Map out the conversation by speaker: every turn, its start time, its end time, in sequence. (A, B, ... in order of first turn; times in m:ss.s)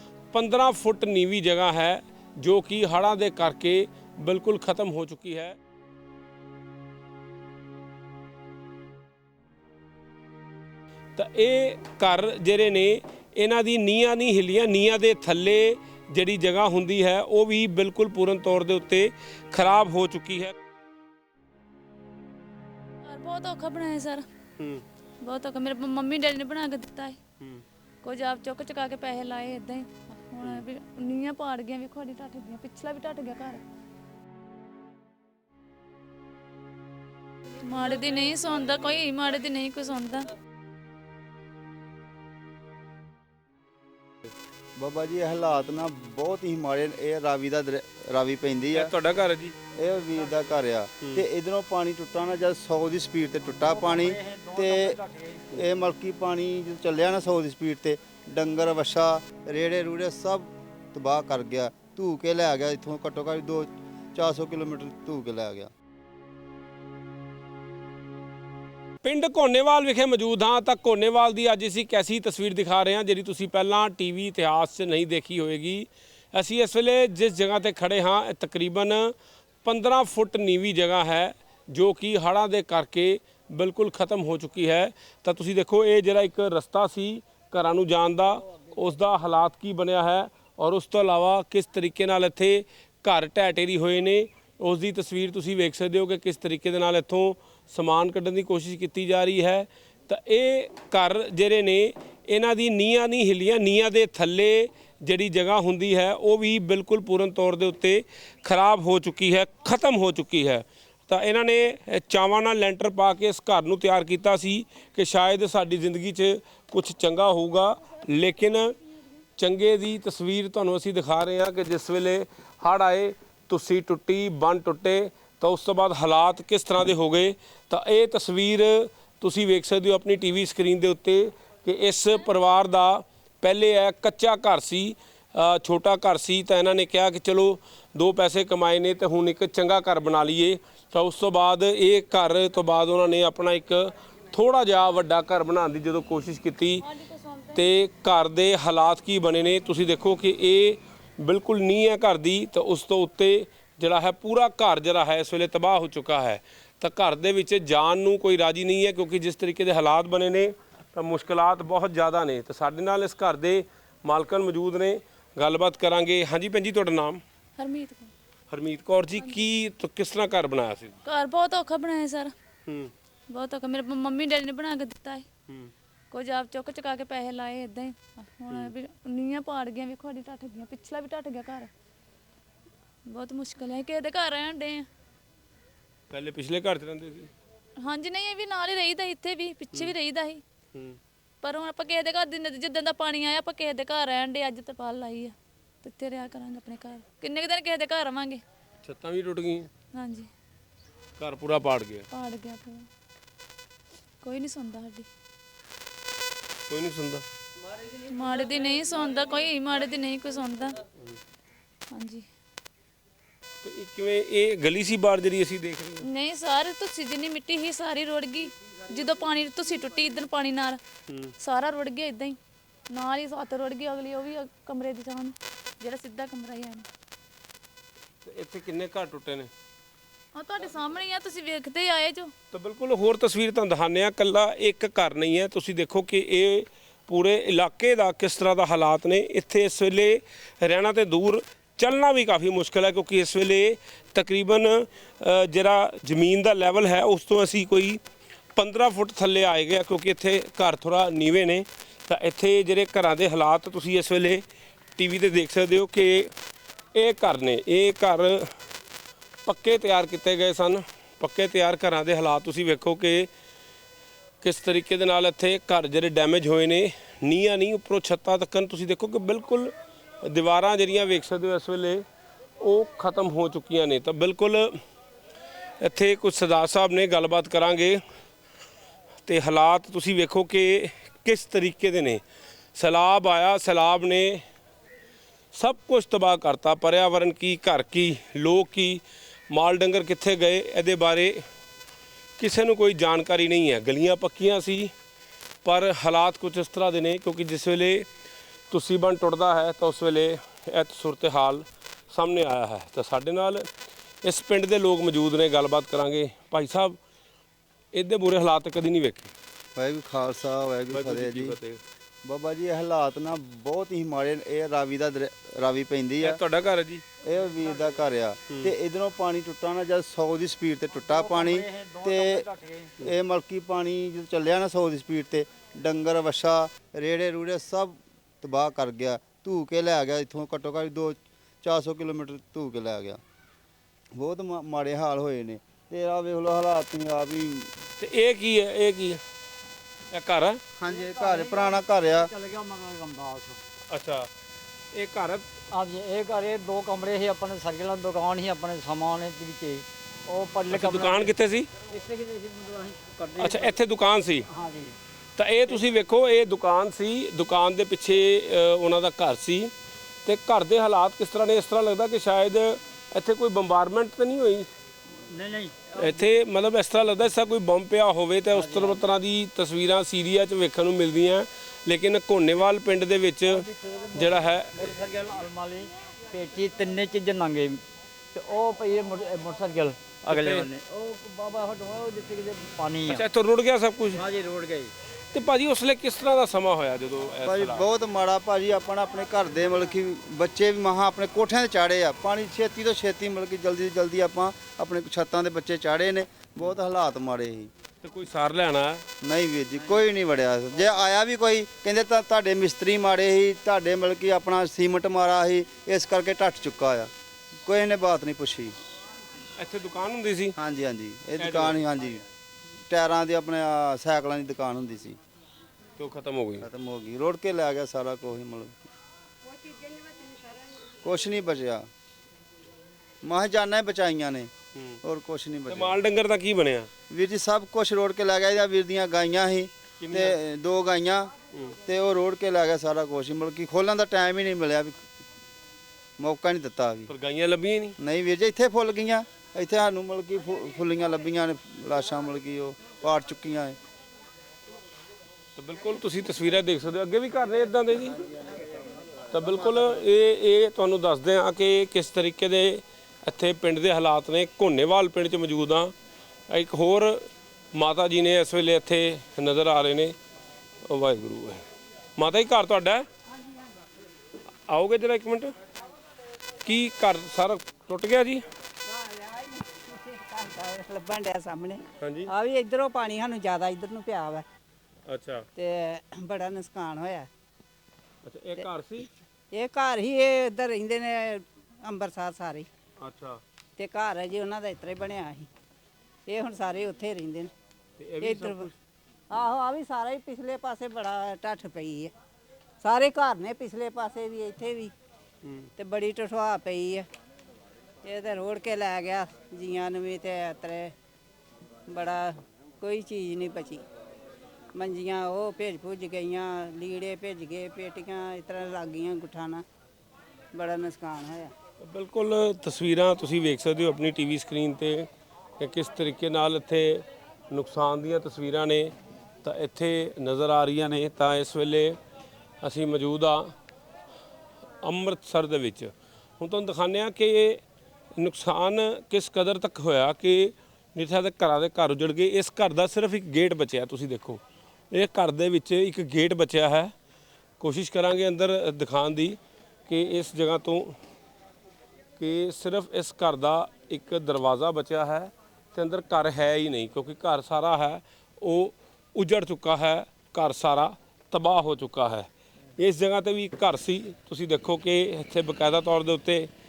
0:00.3-0:05.6 A
0:11.2-0:20.5 A
0:23.0-0:24.2 B
0:24.6-0:24.8 A
0:25.2-0:27.2 B
0:28.0-0:33.6 B
0:37.6-0:40.3 B
0:44.8-0:48.9 C
0:48.7-0:49.5 A
0:49.7-0:55.0 C
0:51.0-0:51.2 A
0:53.6-0:55.4 D
0:55.5-1:05.7 C
1:09.0-1:58.7 A
1:59.4-2:26.9 A
2:26.9-2:27.5 B
2:27.5-2:47.2 A
2:47.6-2:48.1 B
2:48.5-2:51.0 A
2:51.0-2:52.3 B
2:52.6-2:52.9 A
2:53.3-2:55.3 B
2:56.1-3:01.7 B
3:03.1-3:04.9 B
3:06.1-3:07.3 A
3:07.8-3:10.4 B
3:10.7-3:11.0 A
3:11.4-3:18.4 B
3:18.8-3:19.7 A
3:19.9-3:20.3 B
3:21.2-3:22.1 A
3:22.1-3:22.9 B
3:24.2-3:25.1 B
3:26.7-3:27.2 A
3:28.0-3:30.8 B
3:31.9-3:32.2 B
3:33.6-3:36.0 A
3:36.0-3:40.8 B
3:41.1-3:41.3 A
3:41.4-3:42.4 B
3:42.9-3:46.9 B
3:48.2-3:49.5 A
3:50.3-3:52.3 B
3:52.5-4:08.0 A
4:08.5-4:14.4 A
4:15.0-4:16.3 A
4:16.9-4:18.5 A
4:19.4-4:23.3 A
4:24.4-4:32.0 A
4:32.6-4:34.8 A
4:35.8-4:38.0 A
4:39.2-4:42.2 A
4:42.7-4:44.4 A
4:45.5-4:51.4 A
4:52.4-4:54.9 A
4:55.6-4:58.1 A
4:58.7-5:03.7 A
5:04.2-5:07.0 A
5:07.9-5:09.3 A
5:09.8-5:11.6 C
5:10.9-5:11.8 A
5:12.2-5:16.4 C
5:16.2-5:17.0 A
5:17.2-5:22.5 C
5:21.0-5:22.9 D
5:23.0-5:33.2 C
5:34.1-5:37.7 C
5:38.0-5:39.2 A
5:40.1-5:40.6 A
5:40.8-5:42.3 C
5:41.0-5:43.6 D
5:43.9-5:44.3 A
5:44.9-5:45.5 A
5:45.7-5:51.3 D
5:50.7-5:51.7 A
5:51.8-5:53.7 D
5:53.4-5:54.5 A
5:54.5-5:54.9 D
5:55.4-5:59.7 A
6:00.2-6:04.7 A
6:05.3-6:06.2 D
6:05.9-6:15.0 A
6:08.6-6:08.9 D
6:13.6-6:17.8 D
6:18.3-6:23.2 D
6:20.2-6:20.7 A
6:23.0-6:24.2 A
6:24.2-6:24.9 D
6:25.3-6:27.9 A
6:27.4-6:37.7 C
6:38.0-6:39.0 A
6:39.2-6:47.1 C
6:47.6-6:48.7 C
6:49.6-6:50.6 A
6:50.6-6:52.2 C
6:51.4-6:51.8 A
6:52.9-6:55.2 C
6:56.0-6:56.7 A
6:56.6-6:58.8 C
7:01.0-7:01.9 C
7:03.2-7:04.5 C
7:04.7-7:05.0 A
7:05.0-7:06.0 C
7:05.7-7:06.9 A
7:07.1-7:11.3 C
7:10.0-7:10.4 A
7:11.5-7:11.8 A
7:11.8-7:15.0 C
7:16.2-7:17.1 C
7:17.1-7:18.0 A
7:18.0-7:23.8 C
7:25.6-7:28.2 A
7:29.3-7:35.9 A
7:36.5-7:40.2 A
7:40.8-7:41.6 A
7:42.2-7:43.1 A
7:44.7-7:45.5 A
7:46.6-7:48.4 A
7:48.8-7:54.4 E
7:52.0-7:52.3 A
7:55.0-7:55.5 A
7:55.6-7:57.3 E
7:58.2-7:59.1 A
7:59.5-8:02.7 E
8:03.0-8:03.4 A
8:03.8-8:05.5 E
8:06.3-8:07.5 E
8:08.0-8:08.7 A
8:08.2-8:08.7 E
8:09.3-8:12.1 E
8:12.8-8:14.9 E
8:15.4-8:15.7 A
8:15.8-8:17.0 E
8:18.0-8:20.9 E
8:21.9-8:23.8 E
8:24.7-8:29.6 E
8:30.5-8:31.5 E
8:31.8-8:42.0 A
8:42.6-8:43.5 A
8:44.8-8:47.6 A
8:48.1-8:56.9 A
8:57.6-9:01.0 A
9:02.2-9:16.5 A